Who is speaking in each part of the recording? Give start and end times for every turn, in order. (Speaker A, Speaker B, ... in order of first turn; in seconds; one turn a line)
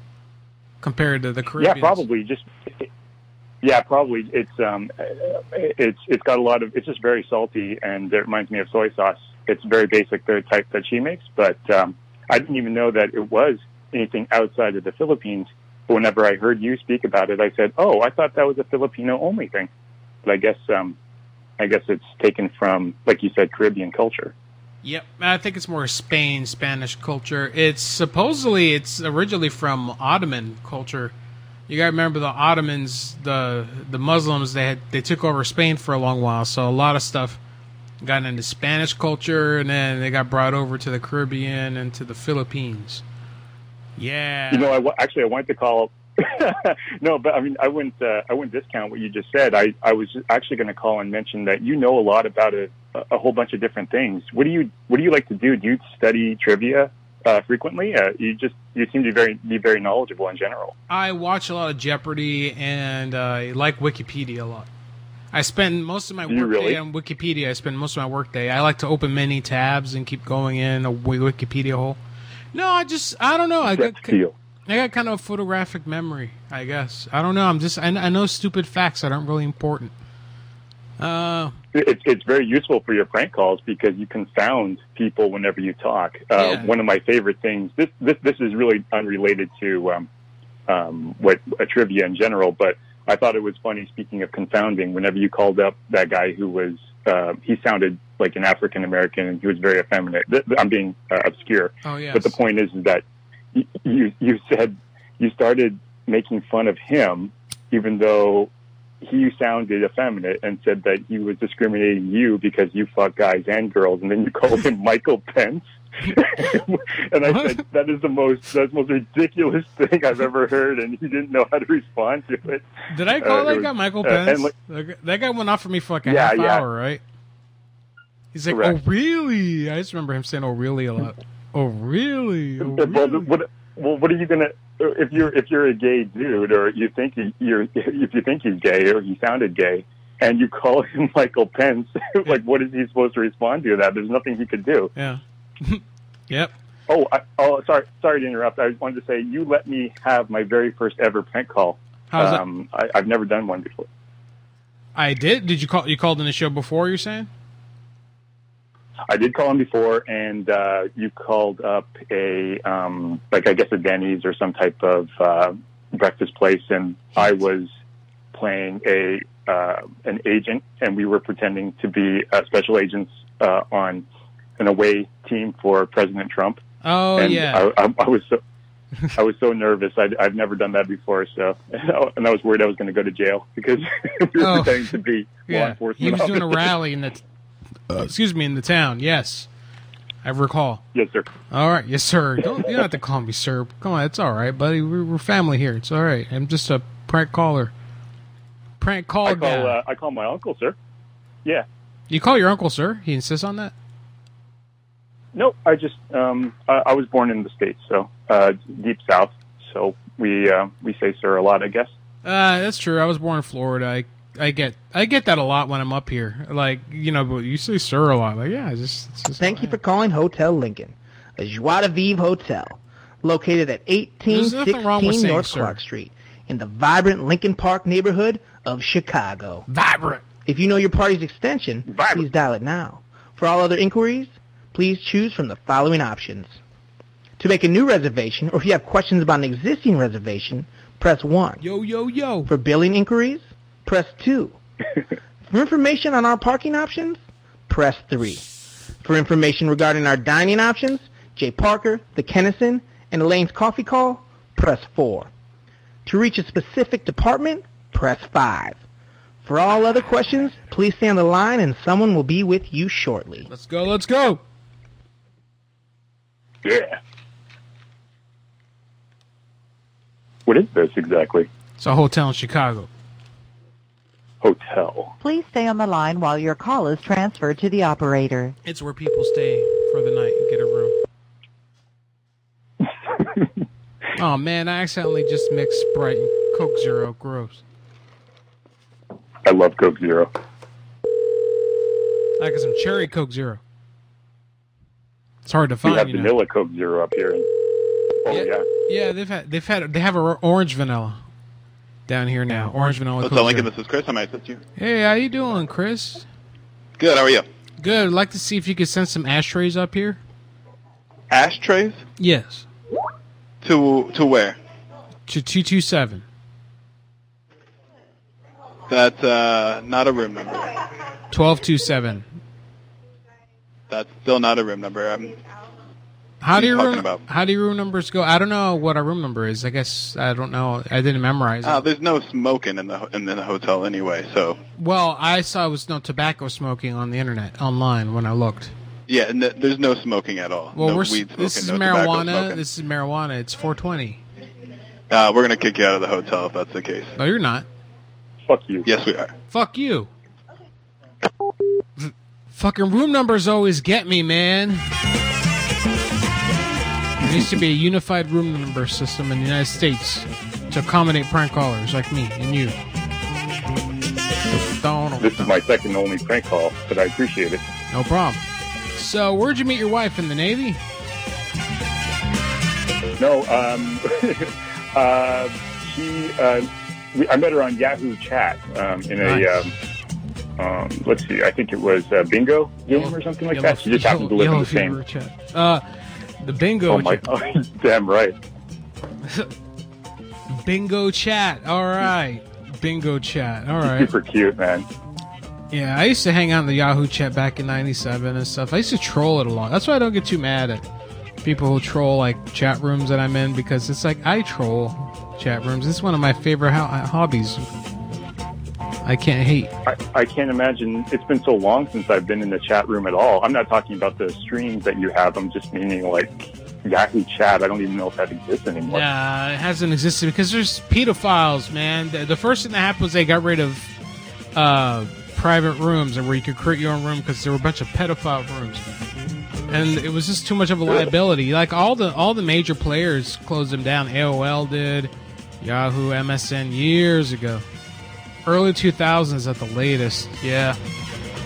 Speaker A: 0.8-2.0
Speaker B: 1.6-2.9
Speaker B: 3.6-19.7
Speaker B: 20.2-21.0
Speaker B: 21.6-24.3
Speaker A: 24.8-31.1
Speaker A: 31.7-37.4
Speaker A: 38.0-43.0
Speaker A: 44.0-44.7
Speaker B: 44.5-60.7
Speaker A: 60.9-64.7
Speaker A: 65.3-72.0
Speaker B: 66.3-66.8
Speaker A: 72.5-74.2
Speaker B: 73.6-74.3
Speaker A: 74.7-79.9
Speaker A: 81.0-81.5
Speaker B: 81.7-90.1
Speaker A: 86.3-86.7
Speaker B: 90.7-108.5
Speaker A: 101.8-102.3
Speaker B: 109.0-122.7
Speaker A: 117.2-117.6
Speaker A: 122.9-127.0
Speaker B: 123.2-124.5
Speaker B: 126.0-126.6
Speaker A: 128.3-133.3
Speaker B: 128.5-128.8
Speaker B: 132.6-144.9
Speaker A: 144.9-146.5
Speaker B: 146.9-153.9
Speaker A: 152.1-152.4
Speaker A: 154.9-157.3
Speaker B: 159.1-167.7
Speaker B: 168.3-174.1
Speaker B: 174.6-176.6
Speaker A: 176.8-177.7
Speaker B: 177.2-178.4
Speaker B: 179.2-186.7
Speaker A: 184.4-187.2
Speaker A: 187.9-189.5
Speaker A: 190.2-190.8
Speaker B: 190.9-191.3
Speaker A: 191.5-197.7
Speaker A: 198.8-199.8
Speaker B: 199.2-200.8
Speaker A: 202.1-203.7
Speaker B: 205.3-211.9
Speaker A: 212.2-219.8
Speaker C: 219.4-229.7
Speaker A: 224.3-225.8
Speaker A: 229.7-230.2
Speaker C: 230.4-236.6
Speaker B: 231.9-232.2
Speaker C: 237.4-241.6
Speaker A: 241.6-242.5
Speaker C: 242.5-244.6
Speaker C: 245.5-248.4
Speaker C: 249.0-255.3
Speaker C: 256.1-258.8
Speaker C: 259.4-263.5
Speaker A: 263.5-264.4
Speaker B: 266.6-267.0
Speaker B: 270.4-271.5
Speaker A: 271.8-272.9
Speaker B: 274.4-275.1
Speaker D: 275.2-278.5
Speaker A: 278.6-281.0
Speaker B: 283.2-283.4
Speaker A: 284.1-287.6
Speaker B: 289.4-290.3
Speaker A: 292.4-293.6
Speaker A: 295.4-296.3
Speaker B: 295.8-297.4
Speaker B: 298.2-298.6
Speaker A: 298.3-301.2
Speaker A: 302.1-303.7
Speaker E: 303.2-304.6
Speaker A: 304.8-306.2
Speaker E: 307.0-307.4
Speaker A: 307.8-310.2
Speaker E: 311.3-312.0
Speaker A: 312.2-312.6
Speaker E: 313.6-314.6
Speaker A: 315.3-316.2
Speaker E: 318.9-320.7
Speaker A: 321.3-322.3
Speaker E: 323.9-325.4
Speaker A: 326.4-331.9
Speaker E: 326.5-327.2
Speaker E: 331.6-334.6
Speaker A: 334.8-338.7
Speaker E: 339.1-342.6
Speaker A: 340.7-344.2
Speaker E: 345.1-347.1
Speaker A: 347.1-347.6
Speaker B: 348.5-348.9
Speaker E: 348.8-349.3
Speaker A: 349.5-350.1
Speaker A: 352.0-354.9
Speaker A: 357.2-362.8
Speaker A: 364.5-365.5
Speaker B: 365.2-367.6
Speaker A: 367.9-368.4
Speaker A: 368.9-370.8
Speaker B: 373.2-379.7
Speaker A: 379.2-379.6
Speaker B: 380.6-385.0
Speaker A: 382.9-385.8
Speaker A: 386.4-387.2
Speaker B: 386.9-388.4
Speaker A: 389.2-389.5
Speaker A: 390.5-394.1
Speaker B: 393.8-394.9
Speaker A: 395.7-400.8
Speaker A: 401.4-407.6
Speaker A: 409.0-409.7
Speaker B: 409.9-419.0
Speaker A: 418.9-423.9
Speaker A: 424.5-428.8
Speaker A: 429.7-437.6
Speaker A: 438.4-440.8